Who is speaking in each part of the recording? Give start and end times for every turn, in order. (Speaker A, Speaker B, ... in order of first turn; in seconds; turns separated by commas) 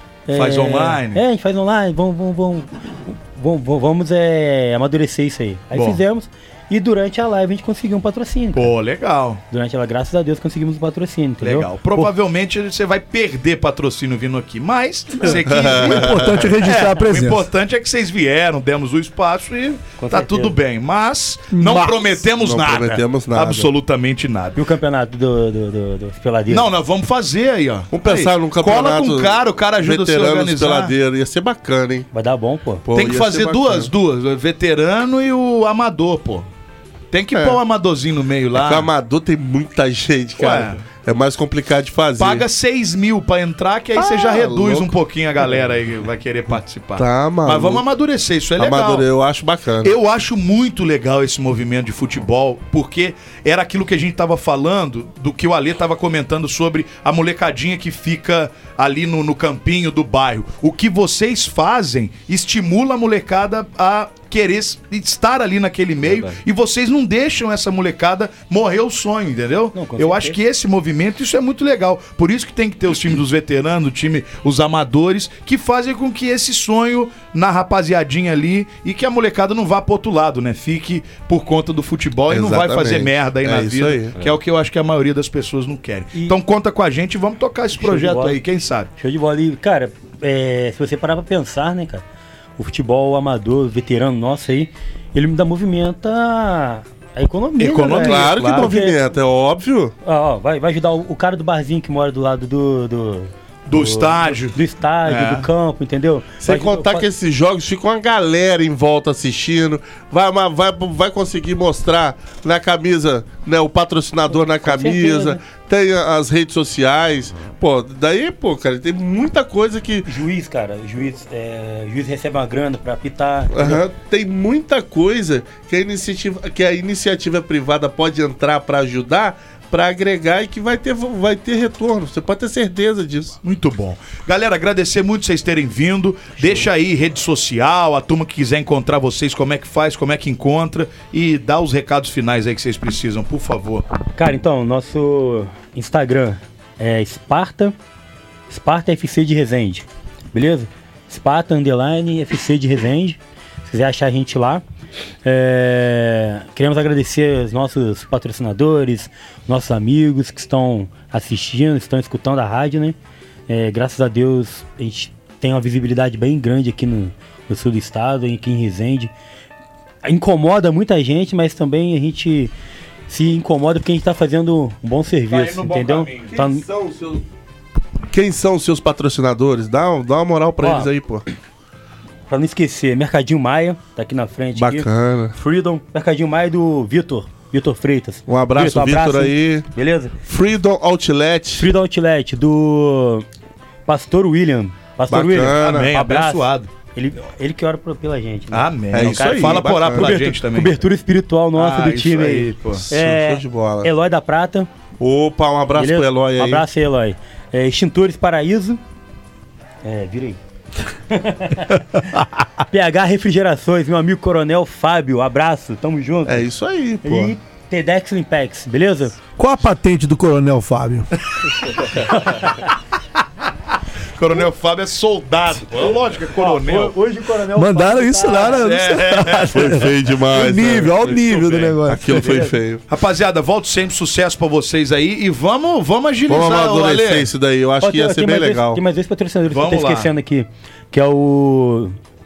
Speaker A: 0.3-8.7, Speaker B: 0.3-1.2, Speaker B: 5.7-6.0, Speaker B: 8.5-9.4, Speaker A: 9.5-12.1, Speaker B: 11.4-24.6, Speaker C: 15.4-16.4, Speaker D: 15.7-17.5, Speaker A: 20.0-20.6, Speaker D: 21.5-22.0, Speaker C: 22.4-23.7, Speaker A: 24.5-26.7, Speaker B: 26.5-30.9, Speaker C: 27.9-32.1, Speaker A: 32.1-32.8, Speaker C: 32.8-33.9, Speaker B: 32.9-36.5, Speaker B: 37.1-38.9, Speaker C: 38.5-42.4, Speaker B: 40.4-40.8, Speaker B: 42.2-49.1, Speaker C: 44.0-44.9, Speaker C: 47.0-47.8, Speaker C: 48.6-49.9, Speaker B: 49.8-88.9, Speaker A: 69.7-70.4, Speaker C: 82.3-84.1, Speaker A: 87.8-88.4, Speaker A: 89.0-92.0, Speaker A: 92.6-99.0, Speaker B: 97.6-98.7, Speaker C: 98.0-99.9, Speaker A: 100.0-107.0, Speaker B: 103.7-105.5, Speaker C: 106.4-120.1, Speaker A: 114.3-115.4, Speaker A: 120.0-123.8, Speaker C: 123.5-133.3, Speaker B: 133.4-143.8, Speaker A: 136.4-136.7, Speaker A: 144.2-147.7, Speaker A: 148.5-154.6, Speaker A: 155.2-162.9, Speaker A: 163.5-169.1, Speaker A: 170.0-172.5, Speaker A: 173.1-176.6, Speaker B: 175.3-176.3, Speaker C: 176.3-177.2, Speaker C: 178.1-181.2, Speaker A: 180.6-180.9, Speaker A: 182.3-190.1, Speaker C: 184.5-185.3, Speaker C: 188.3-189.7, Speaker C: 190.2-191.7, Speaker A: 191.6-193.2, Speaker A: 193.9-204.7, Speaker C: 195.1-195.9, Speaker B: 195.5-196.7, Speaker B: 198.5-200.8, Speaker C: 198.9-200.1, Speaker B: 201.6-202.8, Speaker C: 202.7-203.9, Speaker C: 205.0-206.7, Speaker A: 205.7-208.8, Speaker A: 209.8-210.4, Speaker A: 211.1-211.8, Speaker A: 212.7-216.5, Speaker C: 216.2-217.3, Speaker A: 217.0-219.2, Speaker D: 219.4-221.1, Speaker A: 222.0-222.7, Speaker B: 224.2-226.9, Speaker A: 226.3-228.7, Speaker D: 227.5-232.3, Speaker B: 228.5-229.7, Speaker C: 229.5-231.2, Speaker B: 231.2-231.7, Speaker C: 231.8-232.8, Speaker A: 232.1-232.6, Speaker B: 232.9-237.3, Speaker C: 236.3-238.8, Speaker A: 237.8-241.9, Speaker B: 239.5-240.1